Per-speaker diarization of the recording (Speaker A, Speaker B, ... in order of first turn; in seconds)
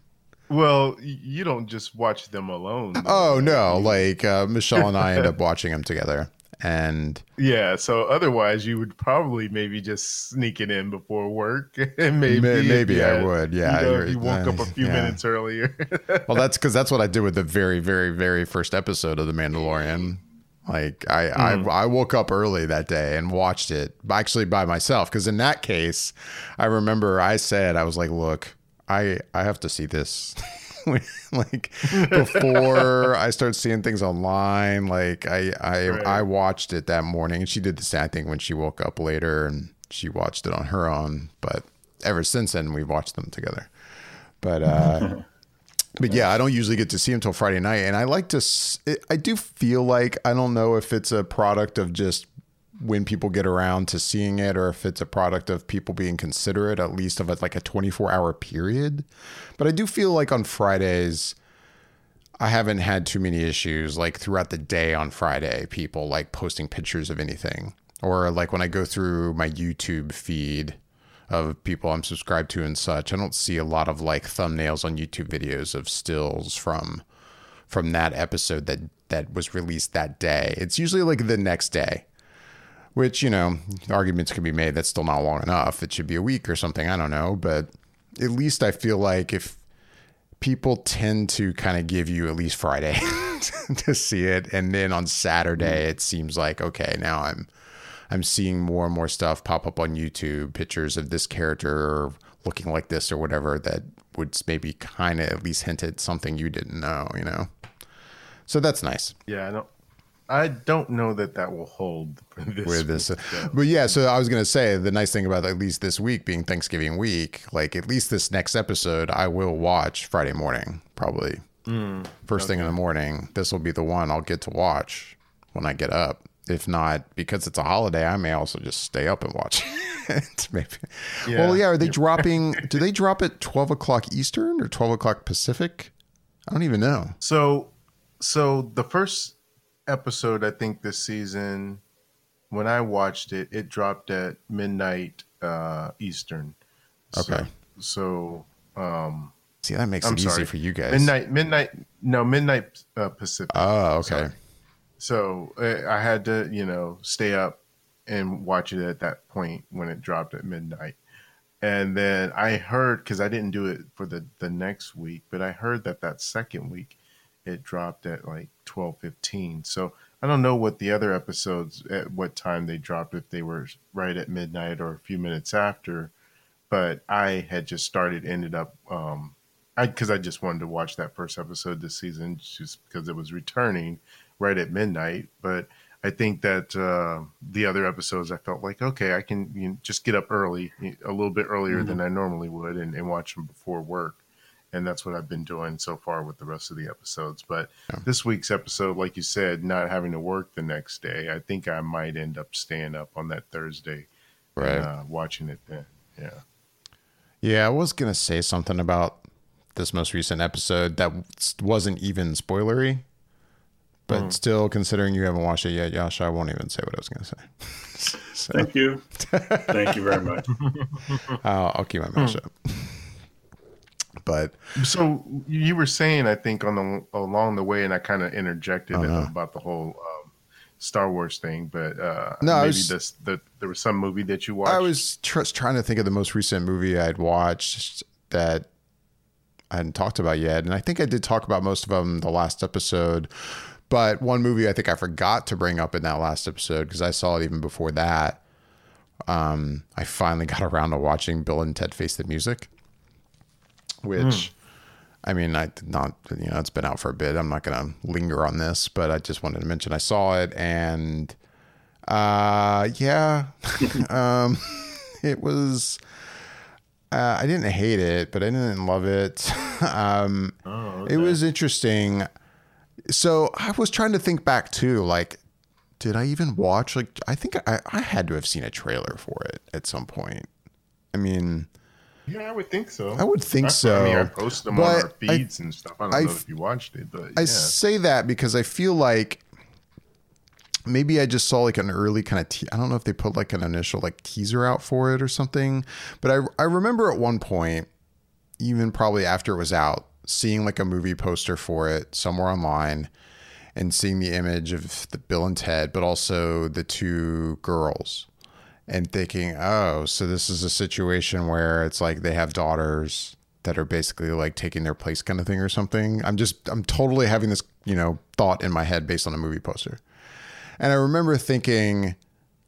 Speaker A: 0.5-4.1, 4.8-5.2, 7.4-16.4, 21.3-21.7, 31.9-32.9, 35.9-36.2, 109.3-109.7, 110.3-113.6, 121.7-122.7, 131.2-132.7, 137.2-139.3, 139.9-141.8, 142.5-146.6, 147.1-149.3, 150.0-154.3, 155.0-161.0, 161.6-176.1, 176.7-194.2, 194.7-204.1, 204.6-206.4, 214.1-214.3, 220.7-221.4, 224.8-235.0, 254.2-254.5, 270.6-271.4, 282.3-287.7
Speaker B: 3.0-7.2, 12.3-15.2, 16.3-43.7, 44.4-45.1, 46.0-59.1, 59.6-61.4, 62.4-70.8, 71.3-77.0, 77.7-82.1, 82.9-89.6, 90.4-97.5, 98.1-107.5, 108.5-109.2, 112.7-121.5, 122.3-135.9, 136.5-137.1, 147.1-147.5, 149.6-151.1, 153.5-154.3, 204.6-204.9, 207.4-209.2, 209.7-213.0, 214.1-220.2, 221.4-223.1, 224.2-224.6, 228.9-229.3, 232.4-232.9, 234.6-238.7, 239.7-248.4, 249.3-252.7, 254.0-254.5, 255.2-261.4, 262.1-266.0, 267.1-272.3, 273.1-275.4, 276.0-280.5, 281.1-281.7, 283.2-285.4, 286.1-286.4, 287.4-289.4, 290.9-297.9, 298.6-303.1, 303.7-308.3, 308.9-320.0, 320.8-322.2
Speaker C: 44.7-45.2, 218.5-219.1, 219.6-220.5